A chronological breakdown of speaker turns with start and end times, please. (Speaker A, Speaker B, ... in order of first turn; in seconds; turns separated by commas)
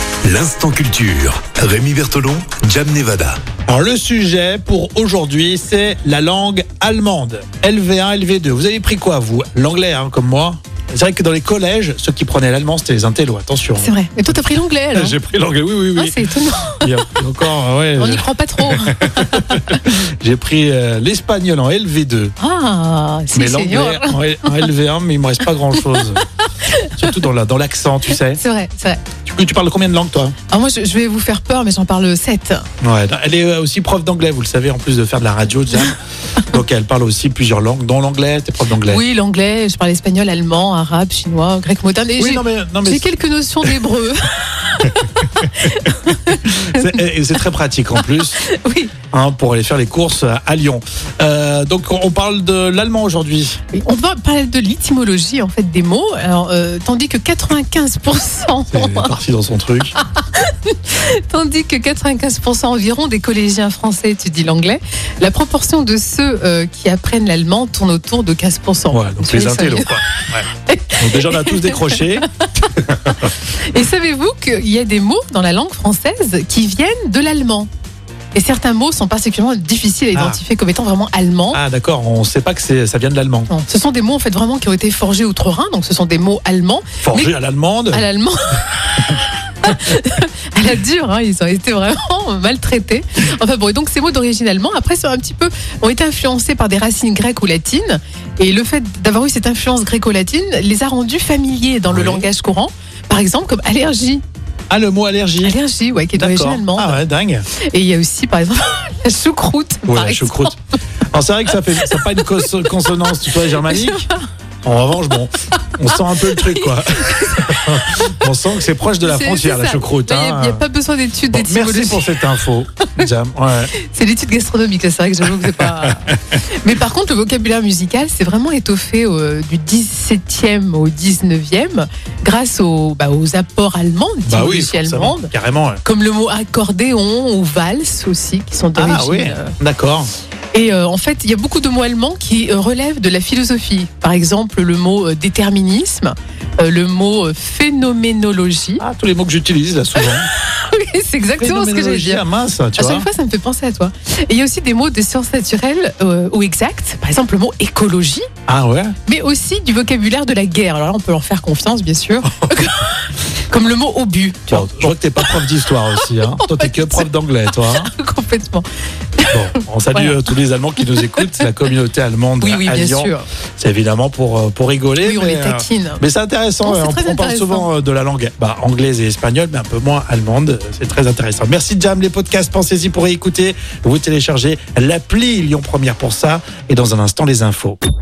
Speaker A: 0.2-3.4, Speaker B: 3.7-13.9, Speaker C: 13.8-15.2, Speaker B: 14.9-16.2, Speaker C: 16.0-17.1, Speaker B: 16.8-22.3, Speaker C: 18.0-19.8, Speaker C: 22.4-24.7, Speaker B: 23.3-26.2, Speaker C: 25.8-27.1, Speaker B: 27.0-28.4, Speaker C: 28.2-29.0, Speaker B: 29.2-30.4, Speaker C: 30.5-32.6, Speaker B: 32.8-35.9, Speaker B: 36.5-39.0, Speaker C: 38.8-47.0, Speaker B: 42.2-43.0, Speaker B: 44.9-45.5, Speaker B: 46.4-48.4, Speaker C: 48.0-48.9, Speaker B: 49.1-53.6, Speaker C: 53.7-59.2, Speaker B: 58.7-59.9, Speaker C: 59.9-77.7, Speaker B: 68.9-73.3, Speaker C: 78.3-81.6, Speaker B: 80.1-80.4, Speaker B: 81.5-83.5, Speaker C: 83.5-87.3, Speaker B: 87.0-88.0, Speaker C: 87.9-104.2, Speaker B: 101.9-102.3, Speaker B: 104.7-105.5, Speaker C: 105.4-107.0, Speaker B: 106.1-107.5, Speaker C: 107.6-110.5, Speaker B: 109.9-110.5, Speaker B: 111.1-114.0, Speaker C: 111.5-112.5, Speaker C: 113.1-114.3, Speaker B: 114.6-120.6, Speaker C: 115.9-118.2, Speaker C: 119.0-122.2, Speaker B: 121.3-123.7, Speaker C: 123.8-135.3, Speaker B: 134.3-135.8, Speaker C: 135.8-139.5, Speaker B: 138.7-140.1, Speaker C: 140.5-148.8, Speaker B: 148.8-150.3, Speaker C: 149.9-152.2, Speaker B: 151.4-153.1, Speaker C: 152.8-158.2, Speaker B: 158.5-158.9, Speaker C: 159.1-164.7, Speaker B: 164.5-167.9, Speaker C: 166.0-168.7, Speaker C: 169.2-170.3, Speaker B: 169.3-187.8, Speaker C: 170.9-171.4, Speaker C: 172.4-173.2, Speaker C: 175.0-176.0, Speaker C: 176.6-177.7